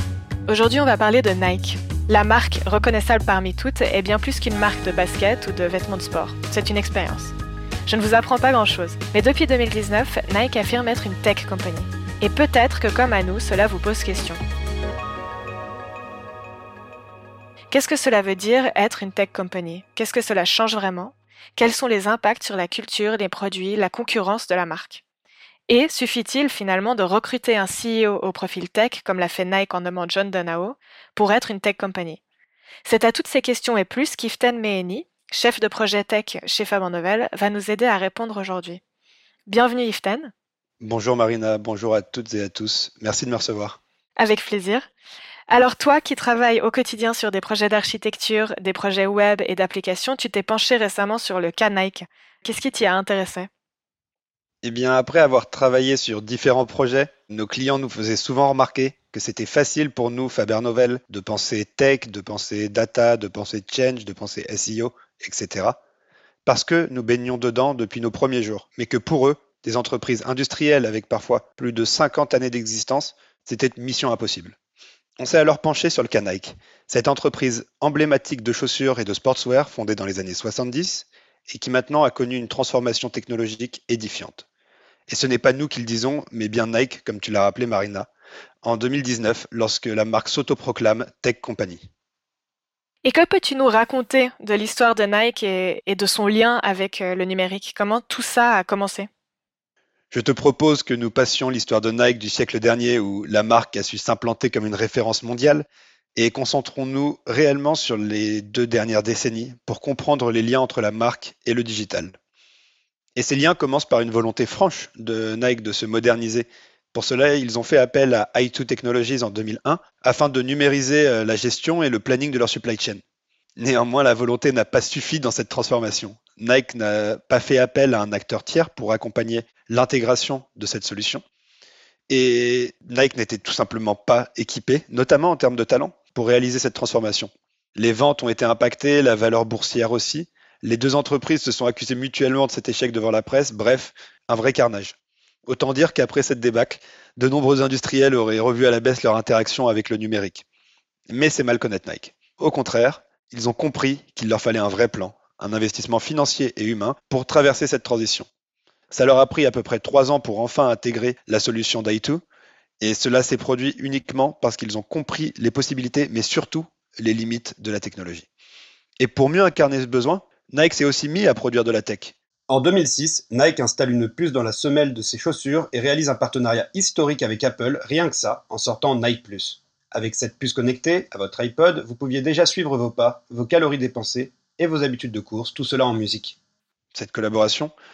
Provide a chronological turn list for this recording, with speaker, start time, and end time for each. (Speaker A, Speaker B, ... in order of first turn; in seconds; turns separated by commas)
Speaker A: 0.5-7.3, Speaker A: 7.9-14.4, Speaker A: 17.7-25.0, Speaker A: 25.7-32.2, Speaker A: 32.9-38.8, Speaker A: 39.5-40.3, Speaker B: 40.8-43.8, Speaker A: 44.2-44.9, Speaker A: 45.5-53.5, Speaker B: 54.6-65.8, Speaker B: 66.5-74.5, Speaker B: 75.2-84.4, Speaker B: 85.1-88.1, Speaker B: 88.6-91.8, Speaker A: 93.0-99.1, Speaker B: 100.1-112.2, Speaker B: 113.2-123.0, Speaker B: 123.6-131.2, Speaker B: 132.1-144.9, Speaker B: 145.5-150.4, Speaker B: 151.1-158.3, Speaker B: 158.9-162.2, Speaker B: 162.8-168.3, Speaker B: 169.0-172.1, Speaker C: 172.5-186.3, Speaker B: 186.9-187.7